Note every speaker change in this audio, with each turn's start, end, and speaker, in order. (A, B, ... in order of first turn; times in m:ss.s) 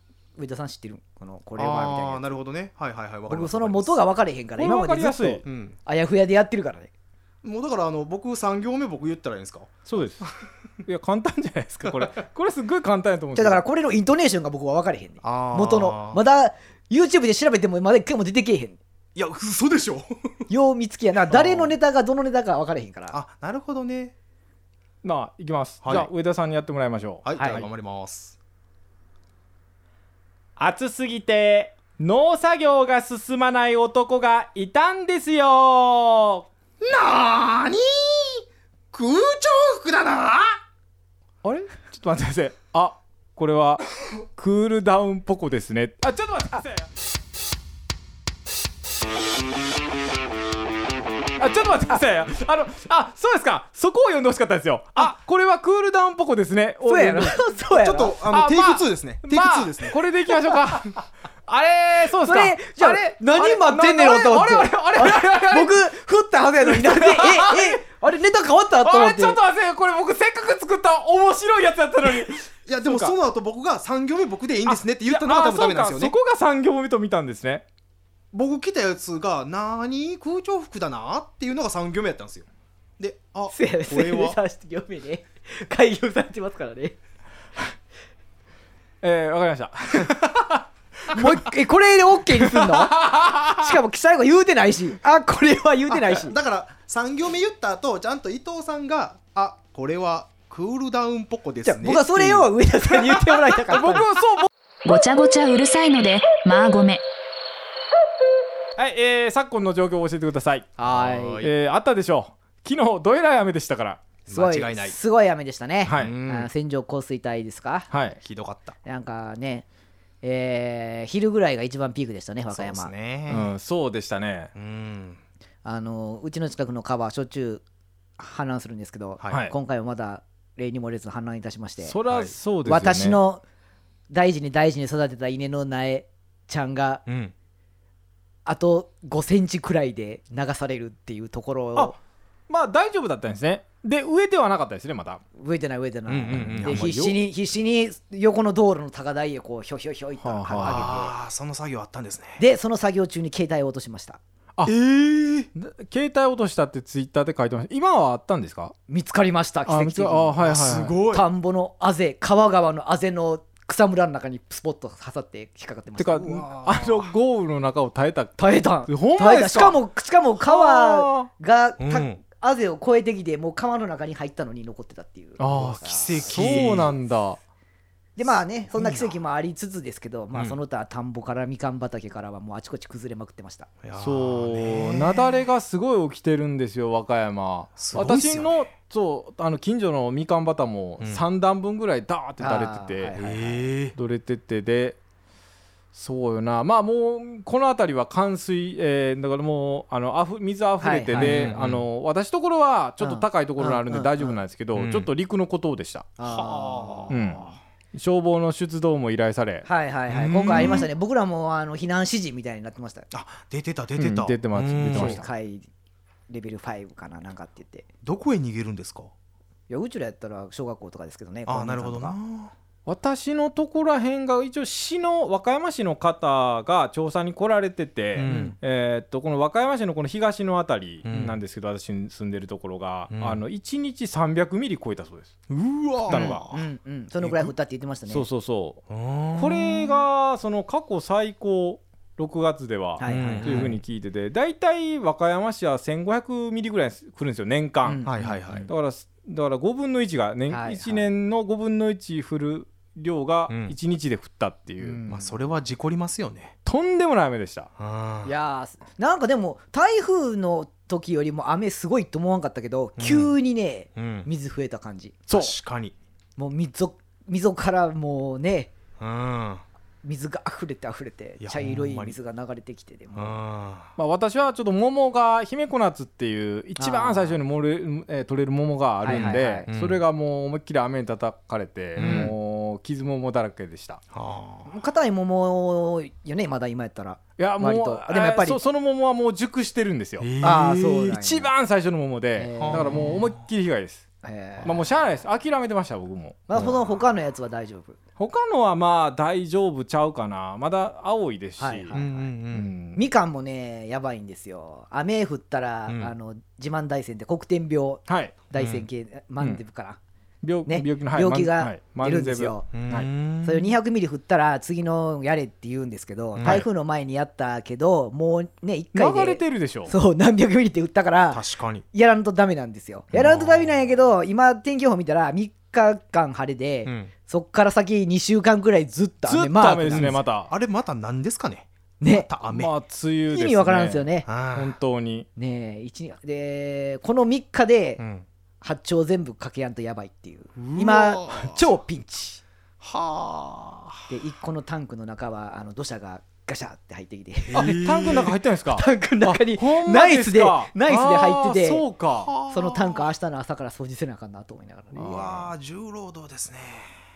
0:00.4-0:02.2 A
0:01.6-0:03.9 B
0:03.3-0:06.9 A
0:04.6-0:05.4 C
0:05.4-0:05.8 B
0:07.4-0:10.4 B
0:09.9-0:10.2 C
0:10.8-0:13.6 C
0:13.4-0:18.8 A
0:15.2-0:16.2 B
0:19.1-0:20.4 B
0:20.5-0:23.2 A
0:21.3-0:21.7 B
0:23.1-0:24.1 B
0:25.0-0:27.6 C
0:25.8-0:26.1 B
0:27.2-0:28.4 B
0:27.4-0:27.6 A
0:30.6-0:36.4 C
0:36.8-0:40.5 B
0:41.4-0:46.9 C
0:51.4-0:57.4 C
0:56.8-0:58.2 A
0:57.7-1:00.0 B
0:58.3-1:05.8 C
1:02.2-1:09.4 A
1:06.6-1:07.8 C
1:08.8-1:13.1 C
1:12.7-1:16.1 B
1:14.6-1:17.6 C
1:18.3-1:22.4 B
1:23.0-1:24.4 B
1:23.5-1:27.0 A
1:29.0-1:31.3 C
1:31.1-1:36.4 A
1:32.3-1:33.7 C
1:35.9-1:42.5 B
1:41.6-1:44.1 A
1:43.4-1:44.5 C
1:44.8-1:47.0 D
1:48.8-1:50.7 C
1:50.8-1:51.4 A
1:50.8-1:51.5 B
1:51.4-1:54.0 C
1:54.2-1:55.0 B
1:54.3-1:57.9 A
1:55.8-1:56.1 C
1:56.0-1:56.5 B
1:57.9-1:58.2 C
1:58.2-1:58.8 B
1:58.8-1:59.6 A
2:00.2-2:03.4 A
2:02.5-2:03.5 B
2:03.3-2:04.5 C
2:04.5-2:05.2 B
2:05.6-2:07.6 A
2:08.2-2:12.0 A
2:11.8-2:13.2 C
2:12.1-2:12.3 B
2:12.6-2:13.4 A
2:14.1-2:17.0 A
2:17.0-2:17.3 B
2:18.4-2:22.0 A
2:22.5-2:25.2 C
2:25.4-2:31.1 A
2:26.1-2:27.0 B
2:26.3-2:27.2 C
2:30.2-2:30.9 C
2:30.6-2:32.4 B
2:32.4-2:34.2 A
2:34.6-2:35.5 B
2:35.5-2:38.7 C
2:38.9-2:40.4 A
2:39.7-2:41.0 C
2:40.4-2:41.2 B
2:41.1-2:46.5 A
2:46.0-2:49.8 C
2:46.6-2:47.1 B
2:48.4-2:56.6 A
2:50.4-2:51.3 C
2:51.8-2:52.2 B
2:55.4-2:57.4 C
2:55.8-2:56.9 B
2:58.2-3:03.7 A
2:58.7-2:59.1 B
3:03.8-3:05.4 B
3:04.0-3:13.1 C
3:07.8-3:08.7 B
3:12.4-3:13.6 A
3:13.2-3:13.9 B
3:13.9-3:15.0 C
3:15.9-3:26.1 C
3:20.8-3:21.6 A
3:21.1-3:21.8 B
3:23.0-3:24.4 A
3:24.7-3:25.1 B
3:26.2-3:27.5 A
3:26.2-3:27.2 B
3:27.1-3:29.7 C
3:29.6-3:33.1 A
3:30.1-3:30.9 B
3:30.2-3:30.8 C
3:33.1-3:35.2 B
3:34.0-3:35.2 C
3:34.9-3:35.7 A
3:36.3-3:37.8 A
3:38.0-3:39.1 B
3:39.7-3:42.2 A
3:41.5-3:42.5 B
3:42.8-3:55.3 C
3:48.1-3:48.6 B
3:48.2-3:48.5 A
3:51.0-3:51.4 B
3:53.1-3:53.4 B
3:55.5-3:56.6 B
3:56.1-3:56.4 C
3:56.1-3:58.2 A
3:57.2-3:57.5 B
3:58.1-3:58.8 C
3:58.9-4:00.0 B
3:59.4-4:15.0 C
4:03.0-4:03.6 A
4:03.1-4:03.8 B
4:07.8-4:08.6 A
4:08.0-4:08.7 B
4:10.5-4:11.1 A
4:13.5-4:13.7 B
4:14.8-4:15.3 A
4:15.0-4:16.5 B
4:16.6-4:17.7 C
4:17.8-4:18.3 B
4:18.2-4:25.2 A
4:23.0-4:23.3 B
4:24.0-4:24.3 B
4:25.3-4:25.5 C
4:25.3-4:25.9 B
4:26.4-4:28.7 A
4:29.0-4:29.6 B
4:30.0-4:33.3 A
4:31.4-4:32.2 B
4:33.1-4:33.9 B
4:34.0-4:44.0 C
4:36.8-4:37.4 A
4:39.0-4:39.7 A
4:39.1-4:40.0 B
4:42.0-4:42.3 B
4:42.0-4:42.3 A
4:44.1-4:44.7 B
4:44.7-4:48.6 A
4:47.4-4:50.3 C
4:50.2-4:51.1 B
4:50.4-4:51.5 A
4:51.0-4:54.0 C
4:52.4-4:53.0 A
4:52.6-4:53.4 B
4:54.2-4:54.8 A
4:54.6-4:56.6 C
4:56.5-4:58.0 A
4:58.2-5:01.9 C
5:01.6-5:02.3 A
5:01.9-5:02.7 B
5:02.5-5:03.0 C
5:02.9-5:10.0 A
5:05.9-5:06.1 B
5:08.1-5:08.4 C
5:08.6-5:08.8 B
5:10.4-5:13.1 C
5:10.6-5:12.7 A
5:12.7-5:13.7 B
5:13.4-5:30.2 A
5:16.3-5:16.6 B
5:18.9-5:19.9 C
5:21.3-5:21.8 B
5:23.1-5:23.7 B
5:26.8-5:27.1 B
5:29.2-5:30.5 C
5:29.9-5:32.7 B
5:32.0-5:32.3 A
5:32.5-5:35.3 C
5:33.3-5:34.3 A
5:34.3-5:34.7 B
5:35.4-5:38.0 A
5:38.0-5:38.2 B
5:38.6-5:42.4 A
5:40.6-5:41.7 B
5:42.8-5:44.0 B
5:44.1-5:47.9 A
5:47.5-5:48.4 B
5:47.5-5:52.3 C
5:48.7-5:51.8 A
5:52.2-5:53.1 B
5:52.5-5:55.5 A
5:54.9-5:56.9 B